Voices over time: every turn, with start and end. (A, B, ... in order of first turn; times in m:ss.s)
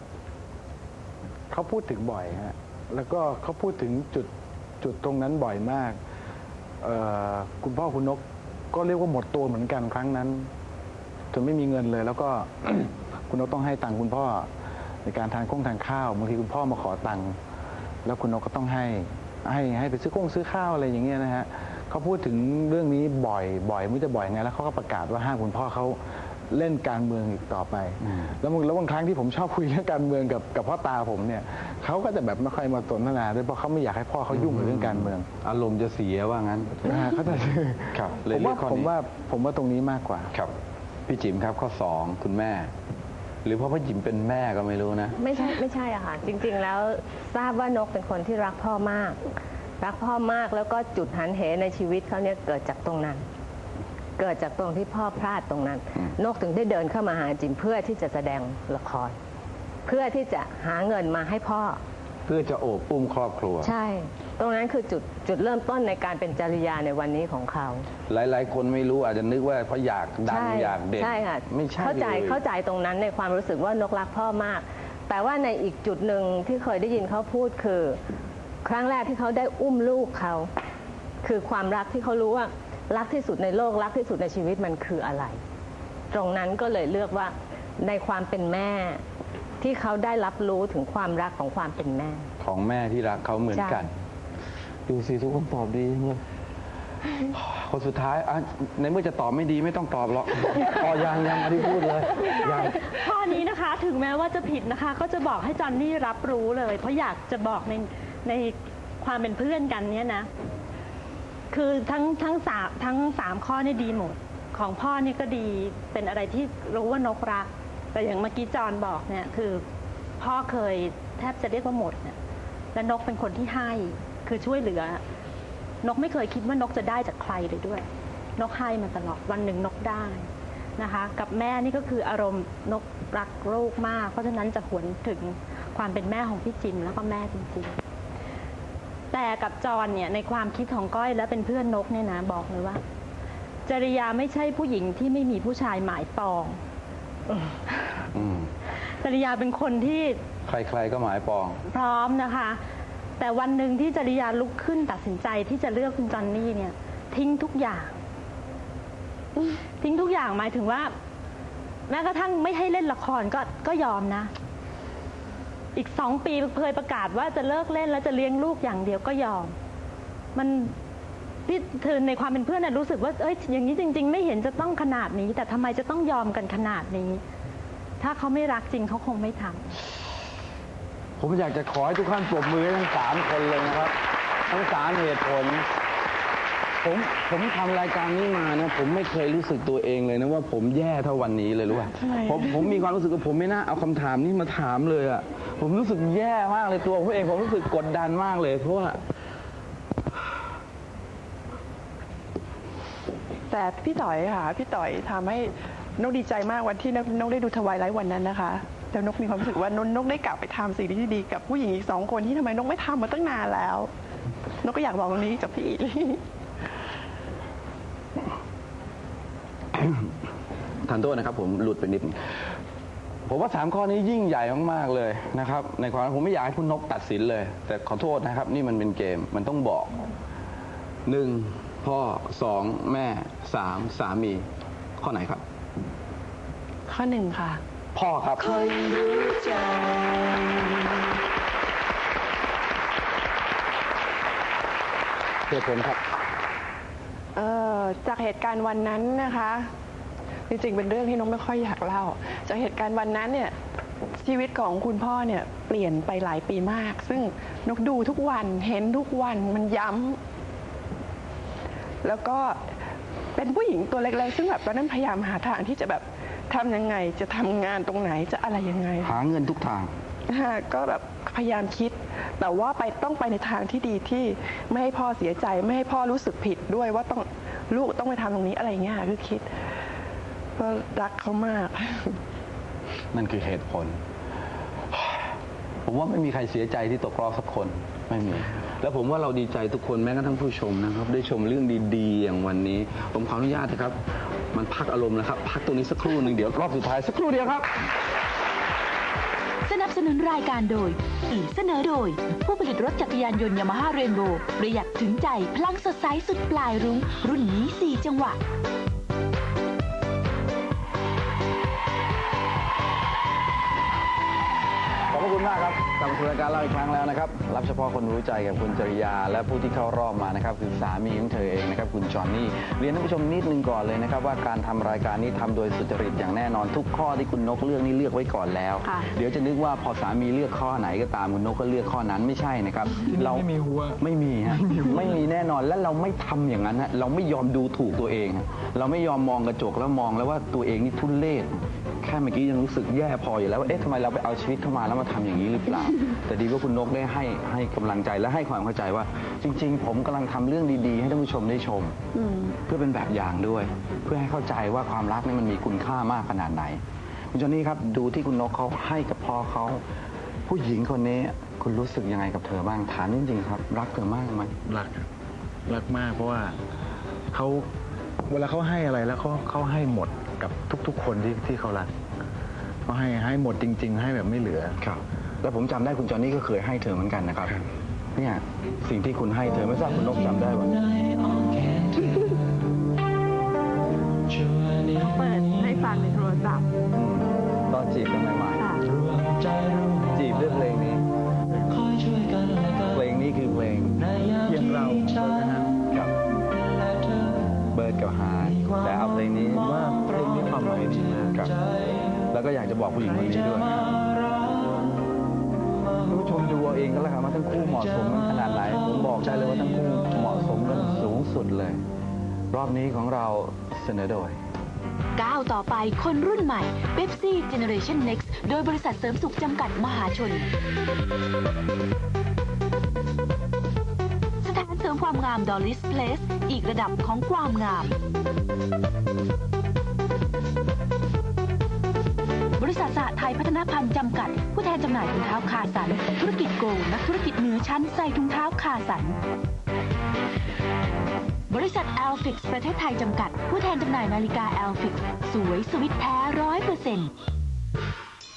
0:01.5-0:06.0 A
0:06.8-0:10.5 A
0:11.3-0:14.5 A
0:15.0-0:17.4 A
0:18.0-0:26.0 A
0:26.5-0:35.3 A
0:34.3-0:37.0 B
0:36.8-0:40.3 A
0:37.9-0:38.9 B
0:41.1-0:42.7 B
0:43.4-0:45.2 B
0:45.2-0:53.2 C
0:54.2-0:59.2 C
0:59.9-1:01.8 C
1:02.3-1:03.7 B
1:03.6-1:07.9 C
1:08.1-1:12.4 B
1:10.3-1:18.0 C
1:18.6-1:20.5 C
1:21.2-1:25.4 C
1:26.1-1:29.0 C
1:29.6-1:32.3 C
1:32.4-1:33.9 B
1:33.5-1:33.9 C
1:34.9-1:36.2 B
1:37.3-1:42.7 B
1:42.4-1:50.3 D
1:51.5-1:59.6 D
2:00.2-2:02.2 D
2:02.7-2:05.0 D
2:05.8-2:07.9 D
2:08.4-2:17.8 D
2:19.1-2:22.8 D
2:23.7-2:26.6 D
2:28.2-2:28.5 B
2:29.0-2:30.2 D
2:30.5-2:31.6 B
2:31.7-2:32.6 D
2:33.2-2:38.0 D
2:39.8-2:40.9 D
2:41.9-2:44.3 D
2:45.8-2:49.5 D
2:50.4-2:50.7 D
2:51.5-2:57.2 D
2:58.0-2:59.7 D
3:01.2-3:04.0 B
3:04.5-3:05.7 B
3:06.8-3:19.0 B
3:12.0-3:12.5 E
3:23.5-3:33.9 E
3:34.6-3:36.2 E
3:39.7-3:40.1 B
3:40.8-3:42.2 B
3:43.3-3:50.1 B
3:51.1-3:54.5 B
3:55.0-3:55.4 B
3:56.9-3:57.6 E
3:57.9-3:58.6 B
3:58.6-3:59.2 E
4:05.5-4:06.0 B
4:07.4-4:09.7 E
4:10.5-4:13.5 E
4:14.2-4:20.2 E
4:22.0-4:22.6 E
4:23.4-4:29.1 E
4:29.0-4:29.9 B
4:30.3-4:39.5 E
4:40.6-4:42.2 E
4:43.1-4:44.0 B
4:44.9-4:45.2 B
4:45.9-4:54.0 B
4:54.5-4:57.7 B
4:59.6-5:08.4 F
5:15.1-5:33.5 B
5:33.0-5:35.2 A
5:34.0-5:52.0 B
5:52.7-5:56.8 B
5:57.3-5:59.8 B
6:00.5-6:04.6 B
6:04.7-6:05.0 A
6:05.7-6:06.6 A
6:07.3-6:07.7 A
6:08.3-6:11.9 A
6:12.9-6:14.8 A
6:14.8-6:17.6 B
6:18.2-6:20.8 B
6:25.1-6:26.6 E
6:26.9-6:28.7 B
6:30.1-6:31.1 B
6:32.8-6:36.2 B
6:37.7-6:41.6 B
6:42.3-6:44.1 B
6:46.1-6:51.8 B
6:52.5-6:54.4 B
6:55.2-7:00.5 F
7:04.4-7:08.0 F
7:12.6-7:19.2 F
7:21.5-7:27.1 F